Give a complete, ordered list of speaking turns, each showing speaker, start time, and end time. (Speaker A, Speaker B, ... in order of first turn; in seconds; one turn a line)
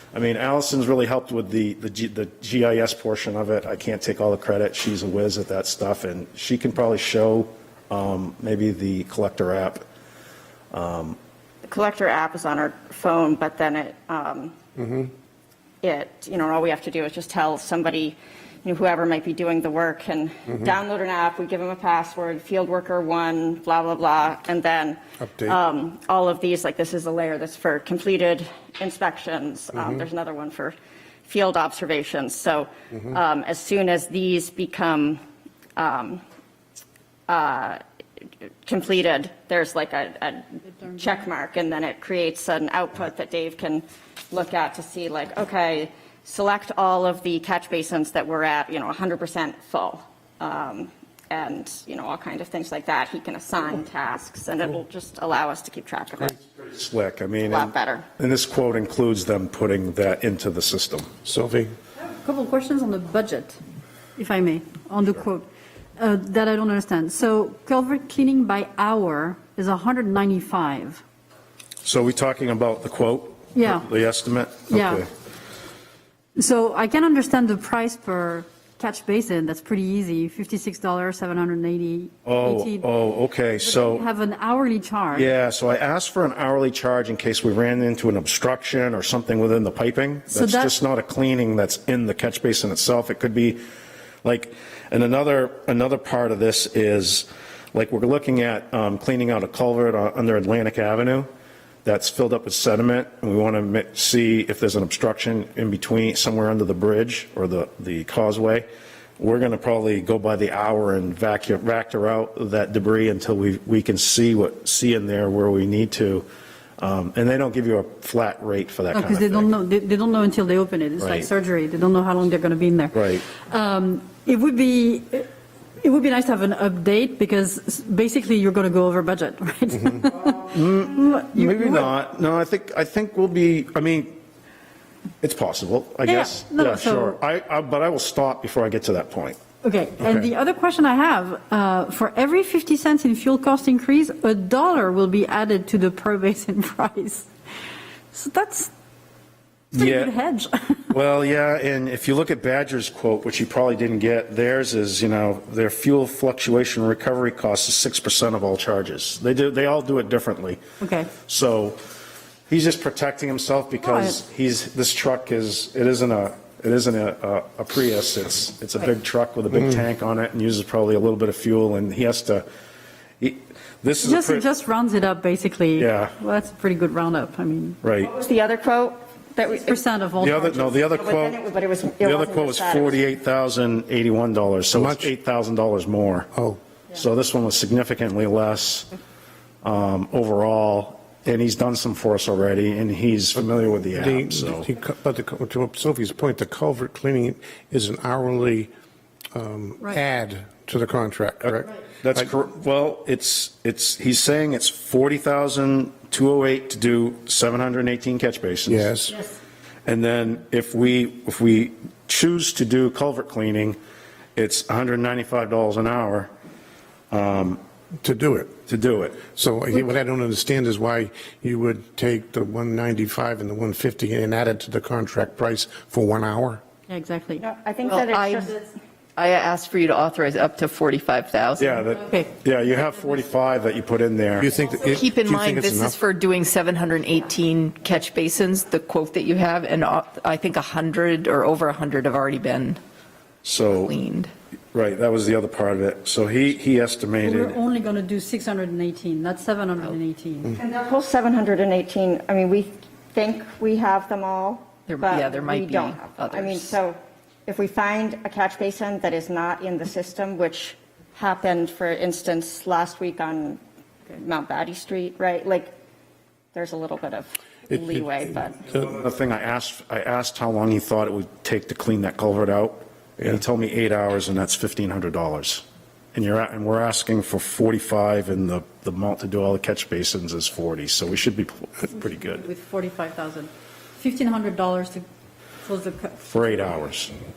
Speaker A: 0.1-9.8
Speaker A: 10.7-11.2
Speaker B: 11.6-14.6
Speaker C: 14.8-15.1
Speaker B: 15.8-30.7
Speaker C: 25.2-25.6
Speaker B: 31.2-35.2
Speaker B: 35.8-36.2
Speaker B: 37.3-37.8
Speaker B: 38.6-56.4
Speaker A: 56.7-61.1
Speaker B: 57.4-58.1
Speaker C: 61.2-61.7
Speaker D: 62.0-63.6
Speaker D: 64.2-71.0
Speaker A: 71.8-75.1
Speaker D: 73.5-73.9
Speaker D: 74.7-75.0
Speaker D: 76.3-82.9
Speaker A: 82.2-84.0
Speaker D: 83.6-85.3
Speaker A: 85.1-93.6
Speaker D: 90.3-90.7
Speaker A: 94.2-101.3
Speaker A: 101.8-108.7
Speaker A: 109.2-116.2
Speaker A: 116.8-119.5
Speaker D: 118.9-125.3
Speaker A: 121.0-121.3
Speaker A: 122.9-123.2
Speaker D: 125.8-131.9
Speaker A: 130.5-134.1
Speaker A: 135.2-139.4
Speaker D: 136.0-137.2
Speaker D: 139.6-147.3
Speaker D: 148.1-148.7
Speaker D: 149.7-150.8
Speaker A: 149.7-150.1
Speaker A: 150.9-160.6
Speaker D: 160.8-161.1
Speaker A: 161.2-161.8
Speaker A: 162.5-172.4
Speaker D: 163.8-164.2
Speaker A: 173.2-174.4
Speaker D: 174.0-177.8
Speaker A: 175.8-176.1
Speaker A: 177.8-178.1
Speaker B: 178.0-179.8
Speaker D: 179.5-180.7
Speaker A: 180.2-181.4
Speaker B: 180.5-183.0
Speaker A: 182.0-186.3
Speaker C: 184.7-185.1
Speaker C: 186.3-186.6
Speaker A: 186.9-188.9
Speaker A: 189.6-194.7
Speaker C: 193.9-198.7
Speaker C: 199.3-202.3
Speaker A: 201.4-208.9
Speaker C: 208.7-209.2
Speaker A: 209.8-213.8
Speaker A: 214.3-216.3
Speaker A: 217.1-217.6
Speaker C: 218.0-218.5
Speaker A: 218.7-219.2
Speaker C: 219.3-226.6
Speaker D: 226.9-227.4
Speaker B: 227.4-228.6
Speaker E: 227.8-228.5
Speaker E: 229.2-231.9
Speaker D: 231.3-232.3
Speaker A: 231.6-234.5
Speaker C: 234.4-236.0
Speaker E: 234.9-242.8
Speaker A: 243.4-243.9
Speaker E: 243.7-244.3
Speaker A: 244.7-247.6
Speaker D: 247.2-250.5
Speaker B: 250.5-265.7
Speaker E: 254.9-256.7
Speaker B: 266.5-268.7
Speaker A: 268.7-282.4
Speaker D: 281.9-285.0
Speaker D: 285.6-286.1
Speaker A: 286.2-287.1